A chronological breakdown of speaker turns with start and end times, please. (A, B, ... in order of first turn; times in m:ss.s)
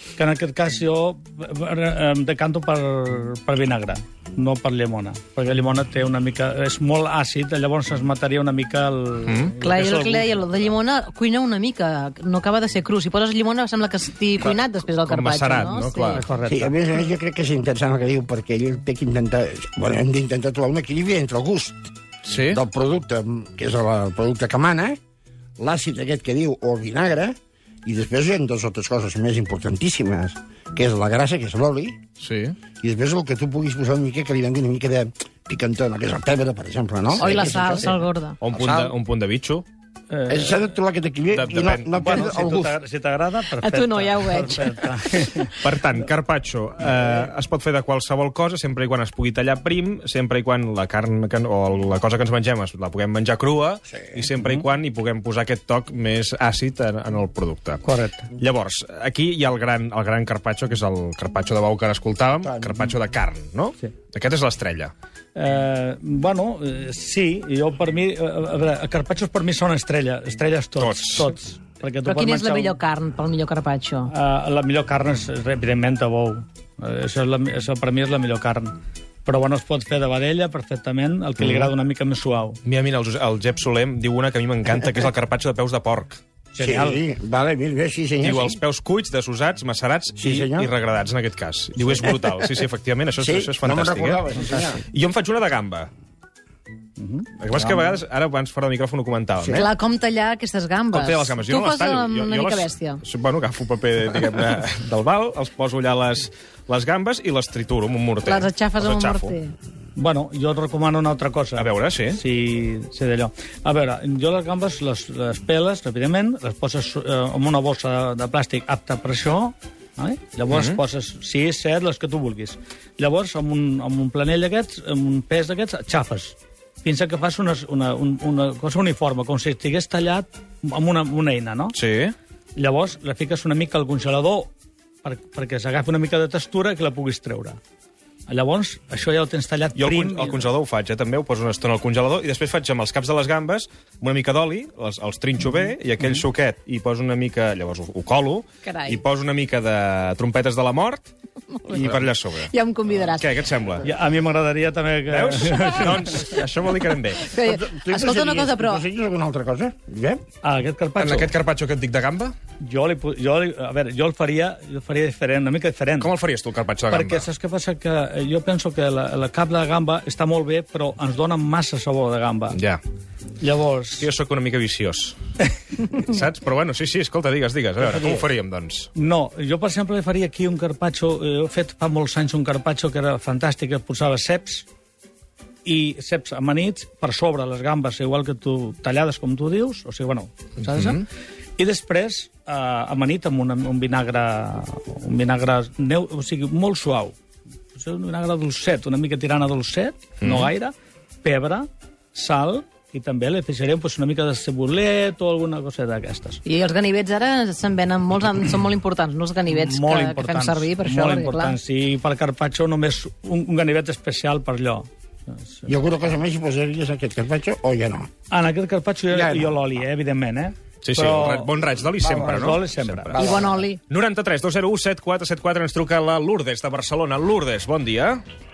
0:00.2-0:10.7 A
0:09.3-0:09.7 B
0:09.6-0:16.2 C
0:15.1-0:16.2 B
0:16.1-0:16.8 A
0:16.5-0:21.9 D
0:22.3-0:22.6 B
0:22.5-0:25.0 D
0:25.6-0:32.0 D
0:32.2-0:32.6 B
0:32.8-0:37.9 D
0:37.2-0:38.4 C
0:37.2-0:37.5 B
0:38.4-0:39.6 B
0:38.5-0:39.0 D
0:40.1-0:40.7 A
0:40.3-0:42.8 D
0:41.3-0:42.1 B
0:41.9-0:45.6 A
0:43.6-0:44.8 C
0:45.6-0:57.8 B
0:57.8-0:58.3 A
0:58.4-1:04.9 B
1:02.4-1:02.9 D
1:05.4-1:12.8 A
1:10.8-1:11.3 B
1:12.0-1:14.1 C
1:14.1-1:22.6 A
1:22.6-1:26.2 B
1:26.5-1:27.0 A
1:26.6-1:28.6 D
1:28.2-1:35.9 B
1:30.2-1:30.7 D
1:33.2-1:34.8 D
1:37.0-1:38.0 A
1:37.4-1:39.7 B
1:39.4-1:39.7 D
1:39.5-1:43.0 C
1:40.9-1:49.4 B
1:48.3-1:49.5 C
1:50.0-2:11.8 A
1:51.6-1:52.2 B
2:00.5-2:00.8 B
2:11.7-2:12.2 B
2:12.6-2:14.5 A
2:15.0-2:17.6 A
2:18.3-2:20.4 A
2:19.8-2:31.1 B
2:28.6-2:29.0 C
2:31.6-2:33.3 C
2:31.7-2:32.5 B
2:33.0-2:33.8 B
2:33.8-2:36.3 A
2:35.1-2:37.3 B
2:37.2-2:38.8 C
2:37.4-2:40.2 D
2:40.4-2:41.3 A
2:41.0-2:42.3 B
2:42.6-2:46.1 A
2:46.0-2:47.2 B
2:46.9-2:52.6 A
2:52.5-2:52.8 B
2:53.4-2:54.1 A
2:54.0-2:55.2 B
2:55.9-2:58.9 B
2:57.8-2:58.3 A
2:59.0-3:04.7 A
3:05.6-3:11.1 A
3:10.7-3:11.0 B
3:11.6-3:17.2 A
3:17.7-3:26.4 A
3:20.2-3:20.5 B
3:26.4-3:31.6 C
3:29.5-3:35.7 A
3:35.7-3:38.1 D
3:38.3-3:43.2 A
3:39.1-3:39.6 D
3:40.8-3:43.3 B
3:42.0-3:42.5 D
3:43.1-3:43.6 D
3:43.2-3:43.8 C
3:43.9-3:48.2 B